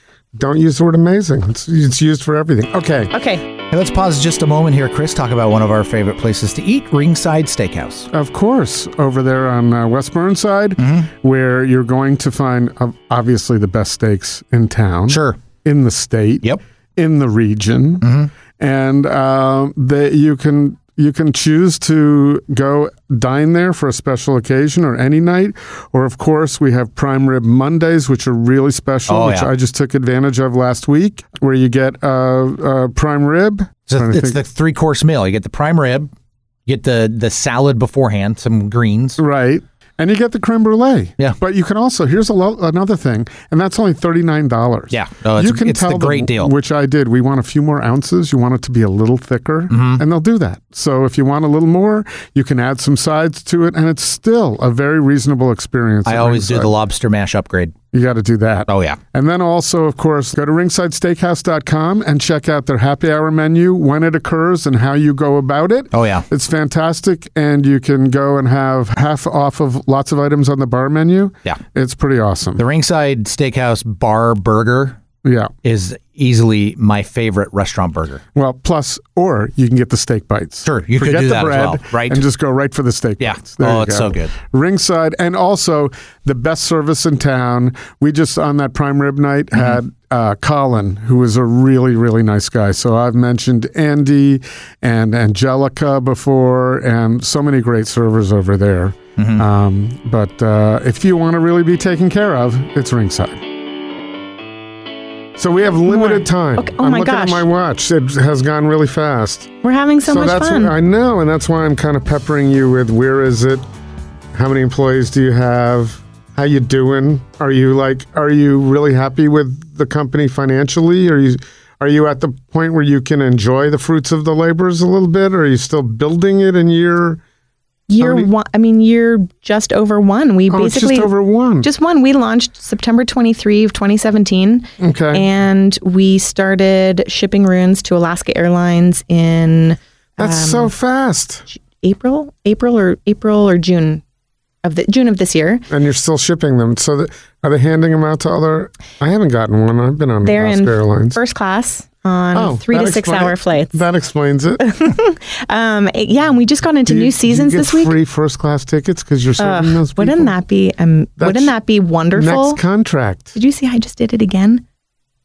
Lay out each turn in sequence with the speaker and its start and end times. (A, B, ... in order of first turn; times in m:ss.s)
0:00.3-0:03.1 A
0:03.1-0:03.5 B
0:03.7-0:08.1 C
0:08.1-0:16.4 A
0:10.8-0:11.1 C
0:15.1-0:15.4 C
0:17.0-0:18.1 A
0:18.0-0:18.3 C
0:18.6-0:34.4 A
0:29.1-0:29.5 C
0:33.9-0:36.1 C
0:36.6-0:39.2 C
0:39.2-0:56.7 A
0:44.9-0:46.5 C
0:49.7-0:50.0 C
0:56.0-0:57.8 C
0:57.9-1:12.6 A
0:58.7-0:59.0 C
1:05.9-1:06.2 C
1:12.6-1:15.0 C
1:15.2-1:15.5 A
1:15.6-1:18.2 C
1:18.3-1:43.4 A
1:20.6-1:22.2 C
1:23.2-1:24.3 C
1:39.2-1:39.4 C
1:45.4-1:49.5 A
1:45.9-1:47.4 B
1:49.6-1:50.7 B
1:50.0-1:53.6 A
1:54.3-2:07.2 A
2:07.9-2:11.1 B
2:08.0-2:08.3 A
2:10.5-2:11.7 A
2:11.6-2:20.7 B
2:14.8-2:15.2 A
2:20.2-2:21.5 A
2:21.8-2:24.0 B
2:24.6-2:25.6 B
2:25.7-2:31.2 A
2:30.2-2:33.8 B
2:32.3-2:34.7 A
2:34.6-2:37.9 B
2:36.8-2:40.3 A
2:39.4-2:42.6 B
2:41.2-2:41.5 A
2:42.1-2:43.3 A
2:43.3-2:44.6 B